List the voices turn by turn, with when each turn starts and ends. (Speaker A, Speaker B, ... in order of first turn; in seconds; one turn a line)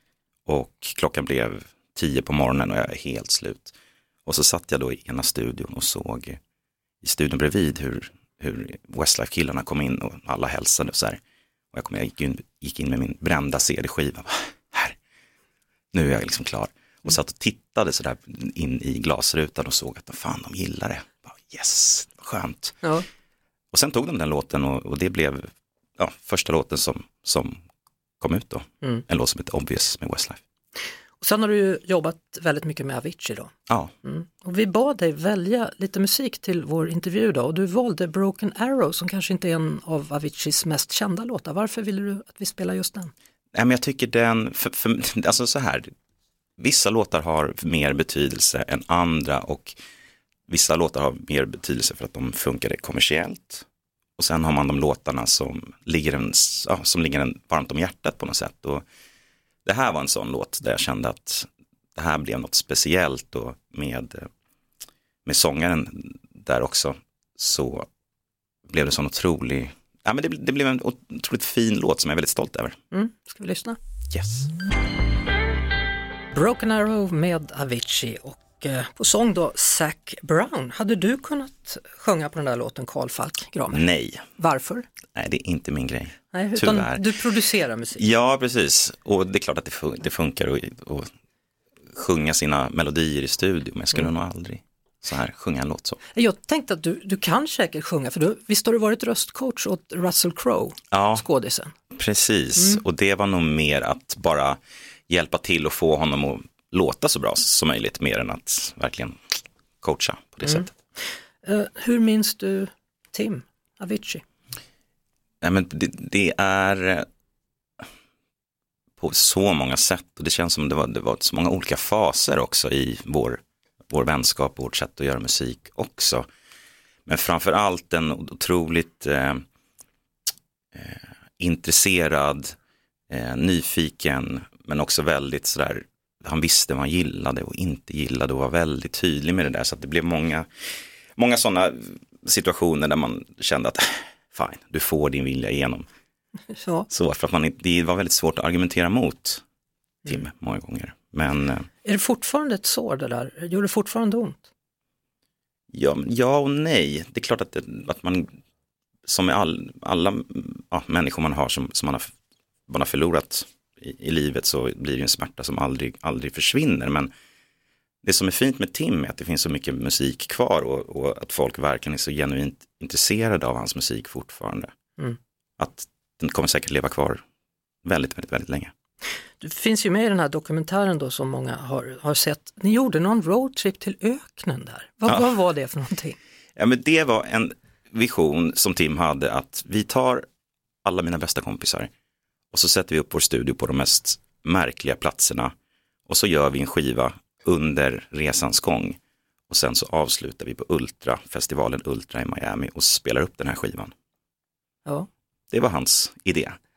Speaker A: 0.5-3.7
Speaker A: 4.2-6.4
Speaker A: 7.0-11.2
Speaker A: 11.7-14.9
Speaker A: 15.9-22.8
Speaker A: 23.7-27.6
Speaker A: 28.2-30.4
Speaker B: 31.2-33.5
Speaker B: 34.0-43.1
Speaker A: 43.5-45.9
Speaker A: 46.6-49.7
Speaker A: 50.5-53.6
Speaker A: 54.2-58.8
Speaker A: 59.6-64.3
Speaker A: 65.2-67.9
Speaker A: 68.7-72.8
Speaker B: 72.9-73.8
Speaker A: 74.1-74.5
Speaker B: 76.3-83.8
Speaker A: 83.7-84.2
Speaker B: 84.4-84.8
Speaker A: 85.1-87.0
Speaker B: 86.3-88.0
Speaker A: 88.0-91.1
Speaker A: 91.9-96.0
Speaker B: 96.1-101.7
Speaker A: 100.9-101.2
Speaker A: 101.9-110.7
Speaker B: 110.4-110.7
Speaker B: 111.4-114.2
Speaker A: 115.4-117.0
Speaker A: 119.0-126.2
Speaker A: 127.0-129.4
Speaker A: 130.7-132.5
Speaker A: 133.1-145.8
Speaker B: 146.5-146.9
Speaker A: 146.9-149.4
Speaker A: 150.1-151.7
Speaker B: 151.8-154.4
Speaker A: 155.7-158.3
Speaker A: 159.1-162.1
Speaker A: 162.7-167.1
Speaker A: 168.0-174.7
Speaker A: 175.6-177.2
Speaker A: 177.8-178.7
Speaker B: 179.4-186.2
Speaker A: 185.1-185.3
Speaker A: 186.6-190.2
Speaker A: 190.8-191.9
Speaker A: 192.5-195.5
Speaker A: 196.1-199.0
Speaker A: 199.5-203.9
Speaker A: 205.5-206.6